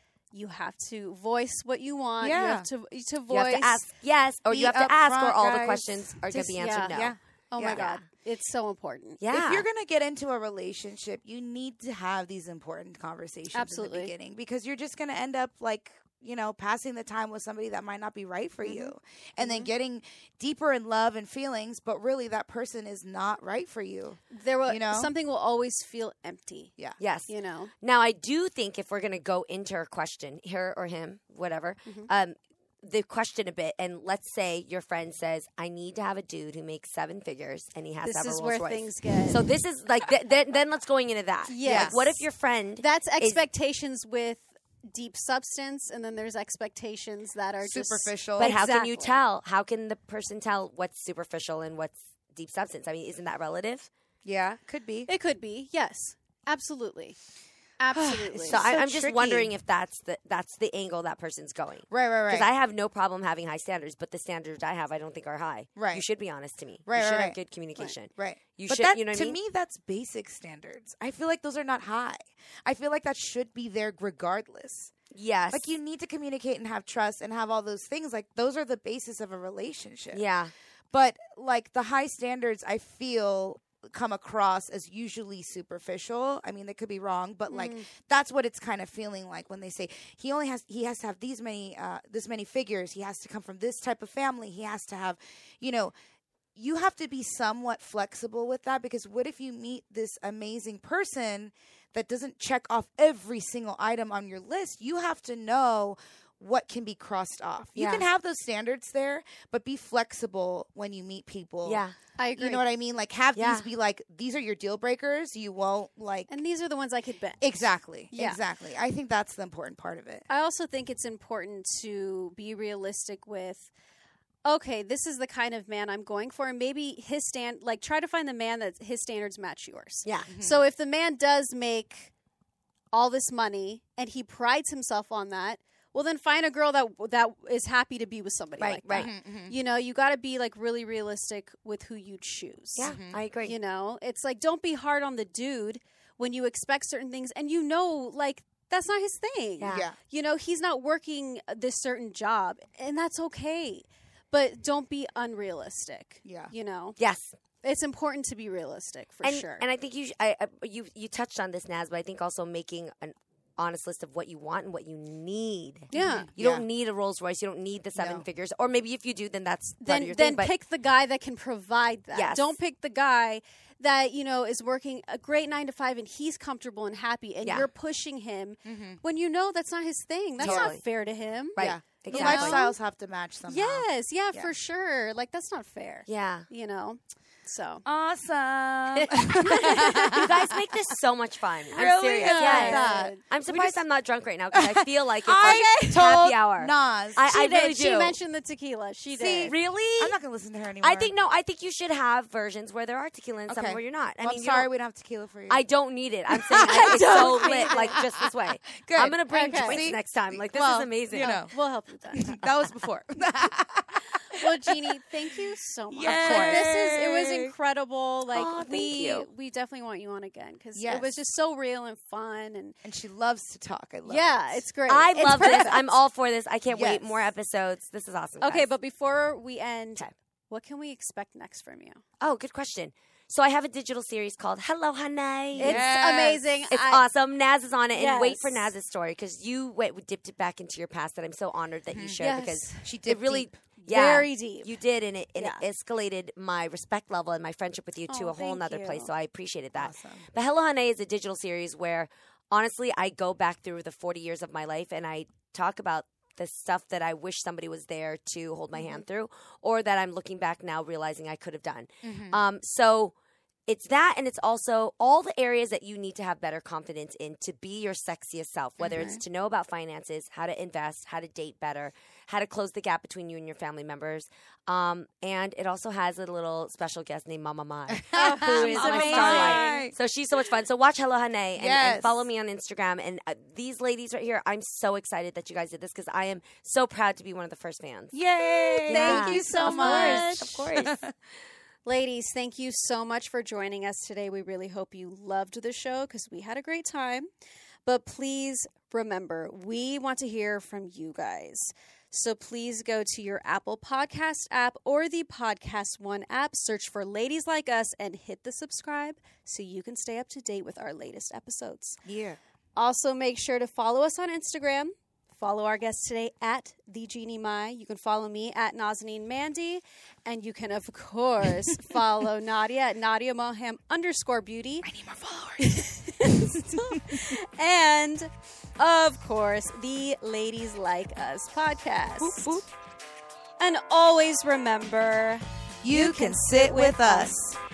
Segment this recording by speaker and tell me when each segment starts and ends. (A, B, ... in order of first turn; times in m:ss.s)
0:00.3-0:03.9 A
0:02.2-0:02.7 B
0:03.3-0:07.2 C
0:04.5-0:07.9 B
0:06.6-0:09.2 A
0:07.7-0:08.0 C
0:09.2-0:09.6 C
0:09.3-0:25.1 B
0:13.5-0:14.1 A
0:18.6-0:19.7 A
0:24.3-0:26.7 A
0:27.0-0:43.4 C
0:27.3-0:27.7 A
0:38.0-0:39.4 A
0:41.5-0:42.2 A
0:41.6-0:42.0 B
0:42.8-0:49.2 A
0:47.6-0:48.6 B
0:48.4-0:53.9 C
0:54.2-0:55.1 B
0:55.1-0:57.2 A
0:57.8-0:58.7 A
0:57.9-0:59.5 B
0:58.4-1:09.4 C
1:01.9-1:02.5 B
1:05.8-1:06.0 B
1:06.9-1:07.4 B
1:08.2-1:14.9 B
1:15.1-1:15.7 C
1:15.5-1:20.2 B
1:20.1-1:20.5 C
1:20.9-1:35.9 B
1:27.5-1:27.8 A
1:36.6-1:51.8 B
1:47.8-1:48.1 C
1:51.6-1:52.0 C
1:52.2-1:52.6 A
1:52.4-1:56.3 B
1:53.4-1:53.7 C
1:56.3-1:58.4 A
1:57.4-2:00.2 B
2:00.3-2:03.7 A
2:04.4-2:12.1 A
2:10.3-2:10.6 B
2:12.9-2:22.9 A
2:18.6-2:19.1 C
2:19.0-2:19.6 B
2:22.8-2:23.6 C
2:22.9-2:23.2 B
2:23.5-2:37.0 A
2:29.6-2:29.9 C
2:29.7-2:30.0 B
2:36.3-2:36.5 B
2:37.0-2:37.4 C
2:37.6-2:39.6 A
2:39.2-2:50.5 C
2:45.9-2:46.3 A
2:45.9-2:46.6 B
2:48.0-2:48.2 B
2:49.8-3:02.8 A
2:52.1-2:52.6 C
2:57.4-2:57.7 C
2:58.7-2:59.0 B
3:00.4-3:00.8 B
3:00.4-3:00.8 C
3:01.6-3:02.6 C
3:01.6-3:04.5 B
3:03.5-3:07.8 A
3:06.1-3:06.5 C
3:07.8-3:10.6 B
3:08.9-3:18.2 C
3:11.7-3:13.8 B
3:12.2-3:13.2 A
3:14.5-3:17.3 B
3:17.2-3:19.6 A
3:19.1-3:21.1 B
3:19.5-3:20.2 C
3:20.8-3:24.7 C
3:23.5-3:25.6 B
3:25.5-3:31.3 C
3:26.3-3:31.5 B
3:26.6-3:28.0 A
3:29.3-3:29.9 A
3:31.1-3:32.4 A
3:32.1-3:35.0 B
3:34.3-3:42.8 A
3:35.9-3:37.5 B
3:36.0-3:36.7 C
3:38.3-3:39.3 C
3:40.8-3:41.2 B
3:42.8-3:44.6 B
3:44.1-3:46.0 A
3:44.9-3:48.7 C
3:46.7-3:47.2 B
3:48.4-3:52.0 A
3:52.2-3:55.9 C
3:55.6-3:57.0 A
3:55.6-3:56.4 B
3:56.7-4:23.1 C
3:57.9-3:58.7 A
4:01.9-4:02.2 B
4:02.2-4:03.0 A
4:02.8-4:03.5 B
4:03.9-4:04.7 A
4:05.4-4:05.6 A
4:08.1-4:09.1 A
4:09.8-4:10.3 B
4:22.0-4:22.4 B
4:23.7-4:48.2 C
4:28.8-4:29.2 B
4:37.9-4:39.9 B
4:38.2-4:39.8 A
4:41.6-4:42.2 B
4:48.1-4:51.1 B
4:48.8-4:50.7 A
4:48.9-4:50.9 C
4:51.9-4:57.3 A
4:57.9-5:12.0 A
5:12.0-5:12.4 B
5:12.8-5:24.9 A
5:24.8-5:27.3 B
5:25.6-5:32.6 A
5:32.2-5:32.6 B
5:33.6-5:37.4 A
5:35.8-5:37.5 B